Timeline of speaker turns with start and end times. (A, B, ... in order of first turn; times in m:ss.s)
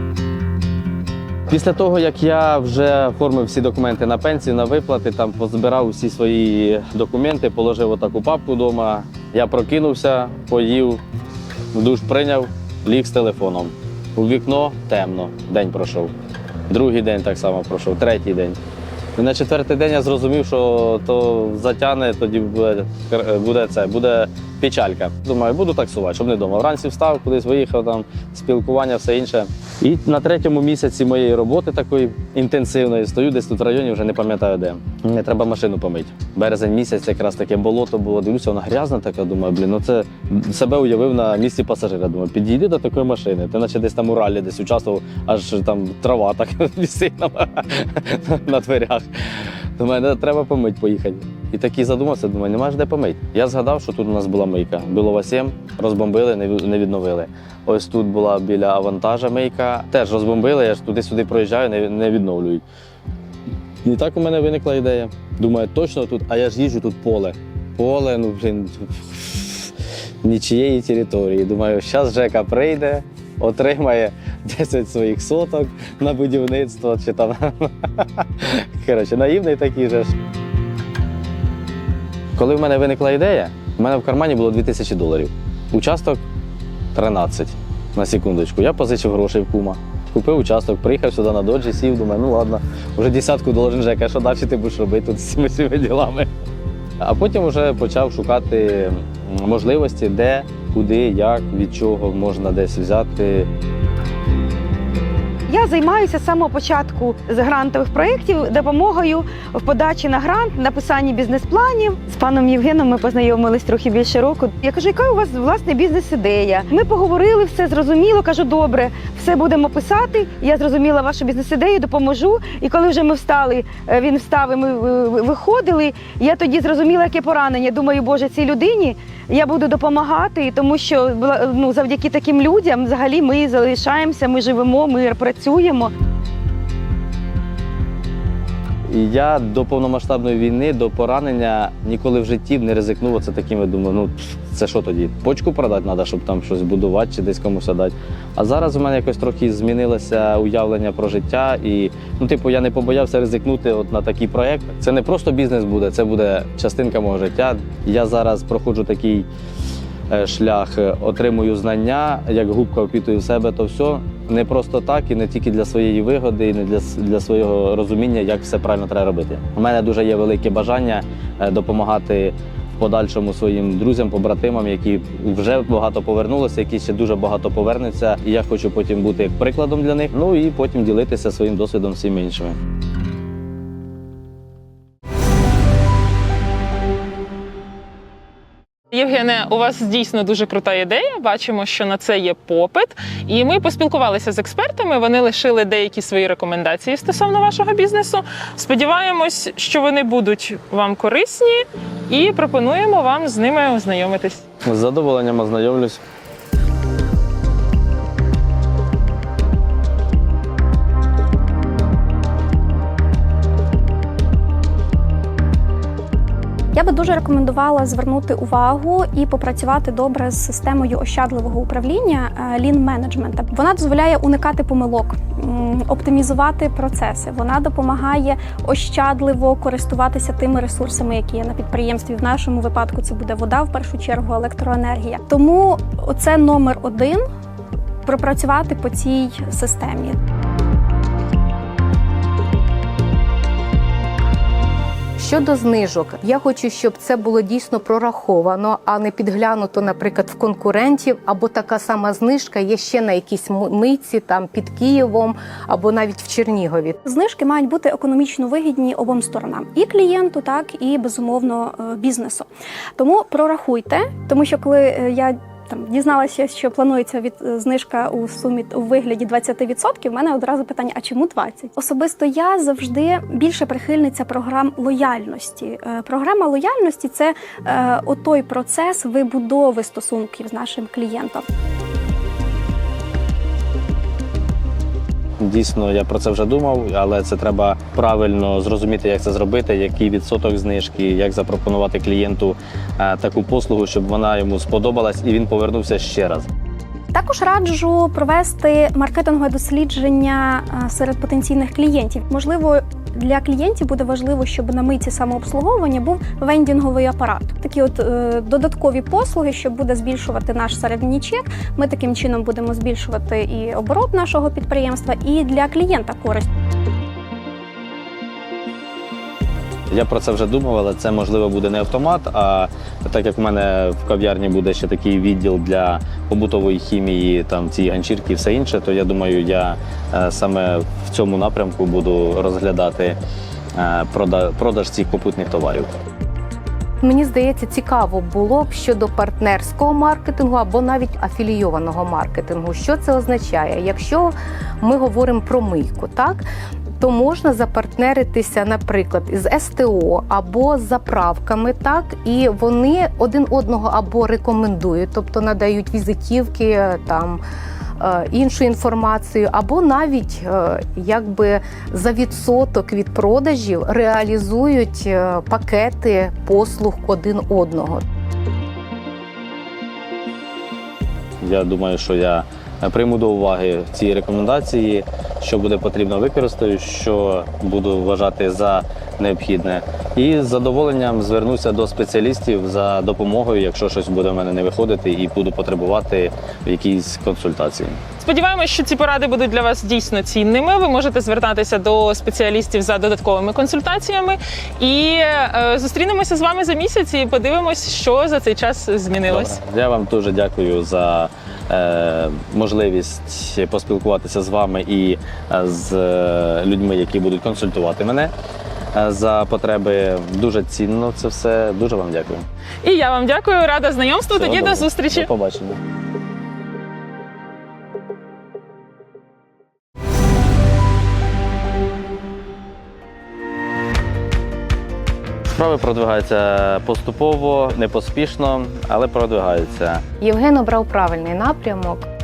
0:01.5-0:11.0 A
0:11.7-0:16.1 A
0:16.7-0:18.6 A
0:19.2-1:02.6 A
1:03.8-1:20.1 A
1:22.4-1:26.2 A
1:26.9-1:36.3 A
1:37.0-1:43.5 A
1:45.5-2:15.9 B
2:18.9-2:39.3 A
2:40.1-3:02.6 A
3:08.9-3:24.4 C
3:24.6-3:26.0 A
3:36.7-3:57.2 D
3:58.0-4:00.2 D
4:05.2-4:17.0 E
4:17.0-4:41.4 D
4:45.4-4:56.5 A
4:57.1-5:16.5 D
5:19.9-5:33.2 A
5:33.7-5:35.9 A
5:37.0-5:46.4 E
5:47.0-5:57.4 E
5:58.0-6:08.0 E
6:11.4-6:28.0 A
6:28.2-6:39.6 C
6:39.3-6:48.3 A
6:48.9-6:52.4 A
6:52.8-6:55.3 C
6:54.3-6:55.8 A
7:05.5-7:10.0 A
7:10.2-7:12.0 E